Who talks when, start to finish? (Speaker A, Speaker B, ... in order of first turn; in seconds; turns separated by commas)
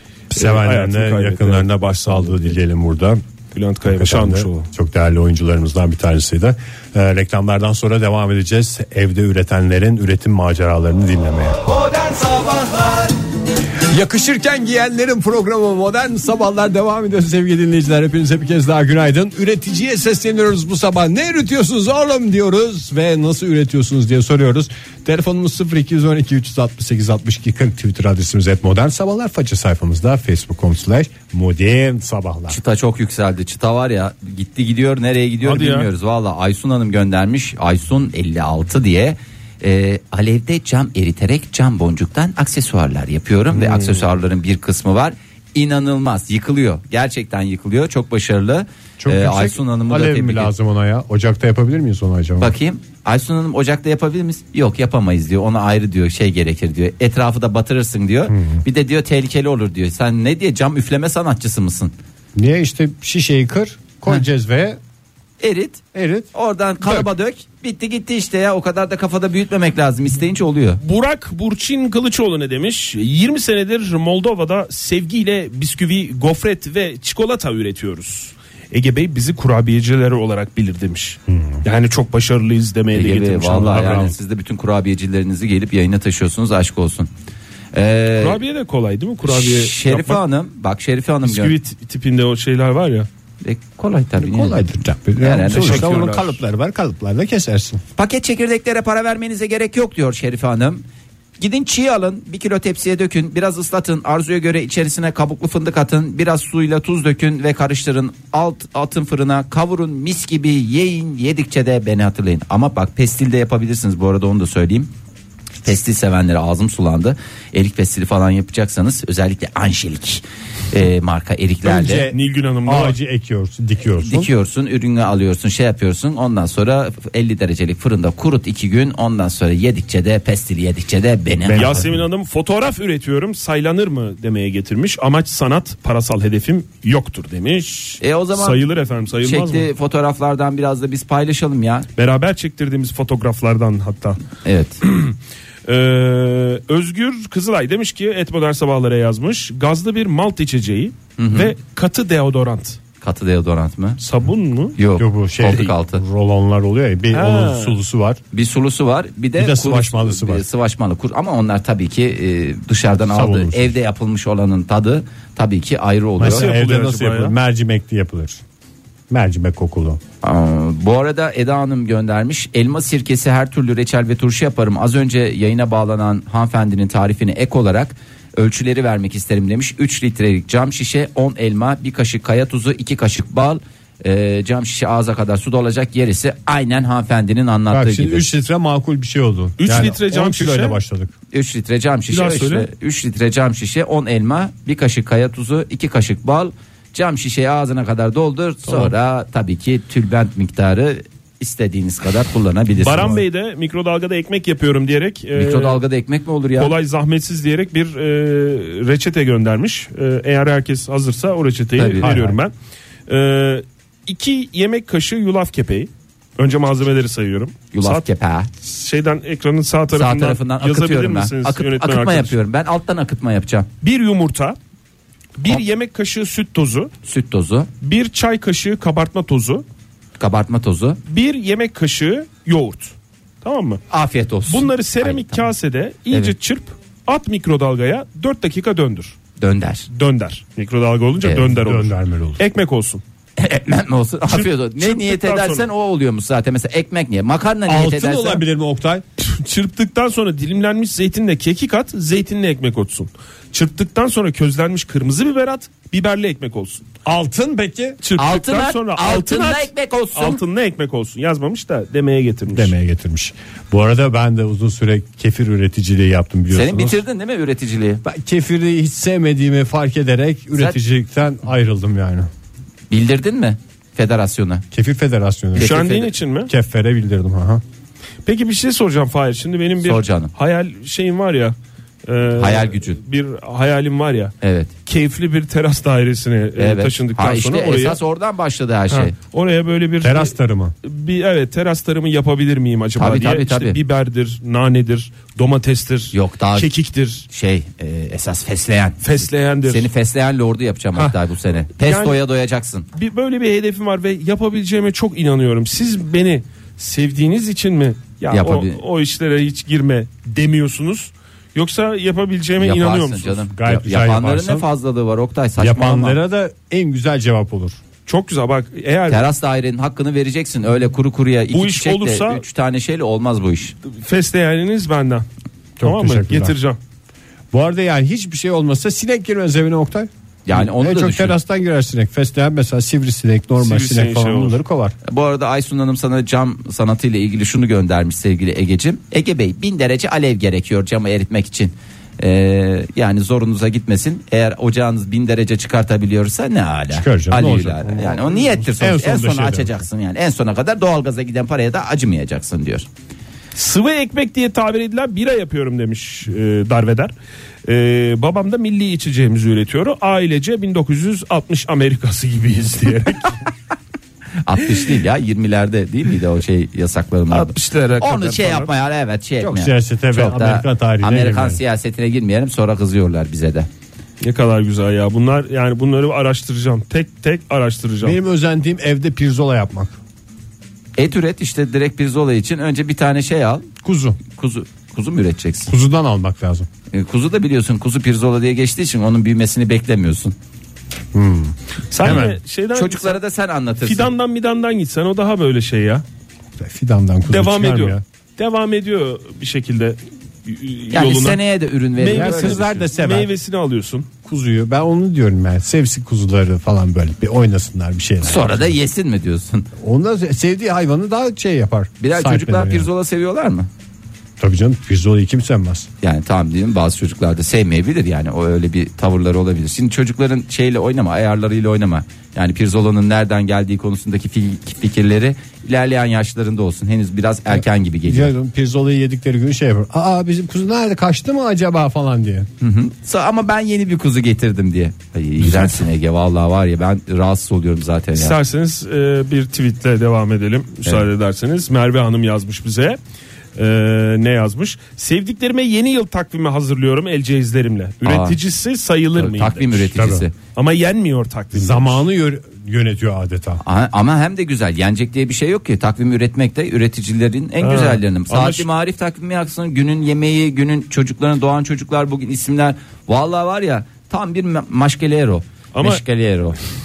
Speaker A: 0.3-3.2, Speaker B: 0.3-2.5, Speaker B: 3.5-4.7, Speaker A: 3.8-11.6, Speaker C: 11.8-13.0, Speaker A: 13.9-32.6, Speaker C: 32.5-50.5, Speaker B: 35.4-35.9, Speaker B: 43.5-44.0, Speaker A: 49.0-52.5, Speaker C: 52.4-61.9, Speaker A: 58.3-58.6, Speaker A: 62.3-64.8, Speaker C: 65.4-65.8, Speaker A: 65.9-66.3, Speaker C: 66.3-70.8, Speaker A: 66.8-67.1, Speaker B: 70.8-84.1, Speaker A: 81.3-81.6, Speaker C: 82.9-87.1, Speaker A: 83.7-84.1, Speaker C: 87.7-88.4, Speaker B: 88.2-90.2, Speaker C: 89.3-91.5, Speaker B: 91.2-93.1, Speaker C: 93.4-94.6, Speaker A: 94.2-97.8, Speaker C: 95.2-96.1, Speaker B: 95.5-96.4, Speaker C: 98.0-100.8, Speaker C: 101.4-114.9, Speaker C: 115.6-122.1, Speaker A: 121.6-124.3, Speaker B: 122.1-123.0, Speaker C: 124.0-131.9, Speaker A: 131.4-132.0, Speaker B: 131.5-139.7, Speaker C: 138.0-138.6, Speaker C: 139.2-141.9, Speaker B: 142.0-144.2, Speaker C: 144.4-144.8, Speaker B: 144.8-152.8, Speaker C: 151.2-151.5, Speaker C: 153.0-154.0, Speaker B: 154.0-154.8, Speaker C: 154.8-156.0, Speaker A: 154.9-158.2, Speaker B: 157.1-157.8, Speaker C: 158.3-166.5, Speaker A: 159.3-160.4, Speaker A: 163.1-163.7, Speaker A: 166.2-168.4, Speaker B: 166.2-167.3, Speaker A: 169.1-170.0, Speaker C: 170.2-188.2, Speaker A: 187.7-191.1, Speaker B: 189.6-190.8, Speaker C: 191.3-203.1, Speaker B: 192.1-192.7, Speaker B: 202.8-205.8, Speaker C: 205.3-206.7, Speaker B: 206.6-212.5, Speaker C: 211.8-212.2, Speaker A: 212.0-212.4, Speaker B: 213.1-218.0, Speaker C: 217.7-218.5, Speaker B: 218.6-222.3, Speaker C: 219.9-223.7, Speaker B: 223.8-224.6, Speaker B: 225.4-226.9, Speaker C: 227.1-227.7, Speaker B: 227.8-229.6, Speaker C: 230.2-231.0, Speaker B: 231.1-233.8, Speaker C: 233.9-235.4, Speaker B: 234.5-239.2, Speaker C: 239.4-239.9, Speaker B: 239.9-243.0, Speaker C: 241.2-241.5, Speaker A: 241.5-242.4, Speaker C: 243.4-248.4, Speaker B: 244.3-245.6, Speaker A: 247.7-249.0, Speaker B: 249.2-256.8, Speaker A: 257.0-258.0, Speaker B: 258.0-262.7, Speaker C: 258.1-260.4, Speaker A: 262.5-267.0, Speaker C: 266.5-268.0, Speaker A: 268.0-272.3, Speaker C: 272.9-274.6, Speaker A: 274.7-275.8, Speaker C: 275.5-276.1, Speaker B: 275.6-276.5, Speaker A: 276.5-277.6, Speaker B: 278.2-288.0, Speaker C: 279.8-280.3, Speaker C: 282.4-283.0, Speaker C: 284.4-284.7, Speaker C: 286.6-289.1, Speaker B: 288.9-297.3, Speaker A: 290.0-290.8, Speaker C: 293.0-293.8, Speaker C: 296.1-296.7, Speaker C: 297.3-302.9, Speaker B: 299.0-299.9, Speaker B: 301.8-302.2, Speaker B: 302.9-313.4, Speaker C: 308.3-308.8, Speaker C: 312.6-316.2, Speaker A: 313.6-314.6, Speaker A: 315.6-317.8, Speaker B: 318.1-319.2, Speaker C: 319.1-323.7, Speaker B: 321.5-322.4, Speaker B: 323.9-325.3, Speaker A: 325.8-326.5, Speaker B: 325.8-326.8, Speaker A: 327.5-334.9, Speaker C: 330.5-331.3, Speaker B: 333.6-334.6, Speaker C: 335.1-352.9, Speaker A: 346.9-349.8, Speaker B: 353.5-357.1, Speaker B: 357.6-363.4, Speaker C: 364.4-373.7, Speaker B: 367.3-368.7, Speaker A: 369.4-371.6, Speaker B: 374.2-378.2, Speaker A: 378.0-380.0, Speaker C: 381.0-383.7, Speaker A: 383.8-384.2, Speaker C: 384.2-385.7, Speaker A: 385.7-386.7, Speaker C: 386.9-390.3, Speaker A: 391.1-392.4, Speaker B: 391.9-393.2, Speaker C: 392.0-394.1, Speaker B: 393.8-396.0, Speaker A: 396.6-398.0, Speaker B: 397.3-401.4, Speaker C: 400.9-402.7, Speaker B: 401.9-404.1, Speaker A: 402.1-403.3, Speaker A: 404.2-408.7, Speaker C: 408.2-409.7, Speaker A: 409.8-412.9, Speaker C: 412.0-413.7, Speaker A: 414.4-415.9, Speaker C: 416.0-428.3, Speaker A: 427.5-432.5, Speaker C: 432.6-438.4, Speaker A: 435.4-435.8, Speaker B: 438.1-443.0, Speaker B: 443.6-449.9, Speaker C: 448.0-448.4, Speaker C: 449.2-450.4, Speaker A: 449.9-450.2, Speaker B: 450.5-452.0, Speaker A: 451.5-453.6, Speaker C: 453.6-466.6, Speaker B: 457.6-458.7, Speaker B: 465.7-466.0